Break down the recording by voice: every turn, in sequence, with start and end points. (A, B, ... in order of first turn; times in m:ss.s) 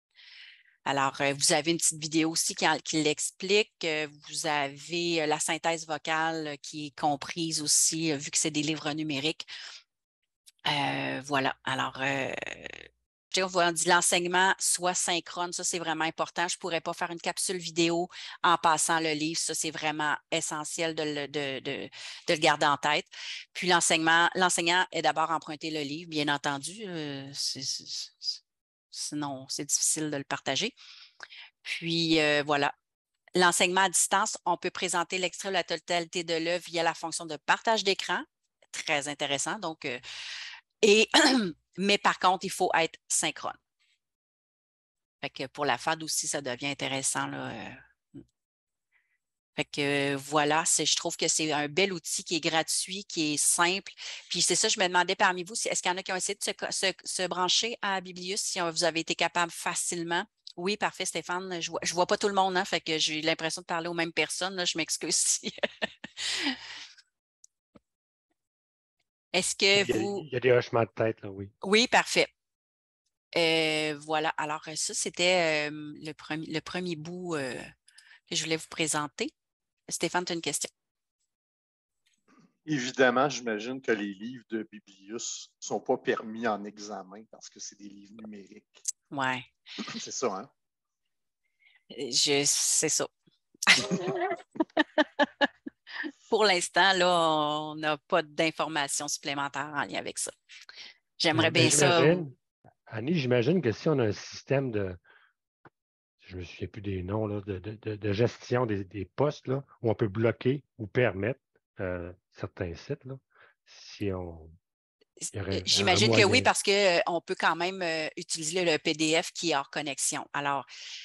0:00.8-0:09.5 A
0:10.7-0:28.4 A
0:28.9-0:30.7 A
0:31.6-0:32.7 A
0:33.4-0:40.0 A
0:40.8-0:43.6 A
0:45.2-0:47.8 A
0:49.6-1:05.6 A
1:06.2-1:06.6 A
1:09.3-1:10.2 A
1:09.7-1:11.5 B
1:11.6-1:12.3 A
1:13.3-1:17.7 A
1:18.3-1:19.3 A
1:19.9-1:20.7 A
1:22.6-1:28.8 C
1:29.1-1:29.5 A
1:29.9-1:30.5 C
1:31.9-1:33.1 A
1:33.7-1:35.5 A
1:36.3-1:40.3 A
1:41.2-1:42.2 A
1:41.3-1:42.3 B
1:42.9-1:45.0 B
1:46.2-1:54.5 B
1:55.2-2:00.6 A
1:55.3-1:56.5 B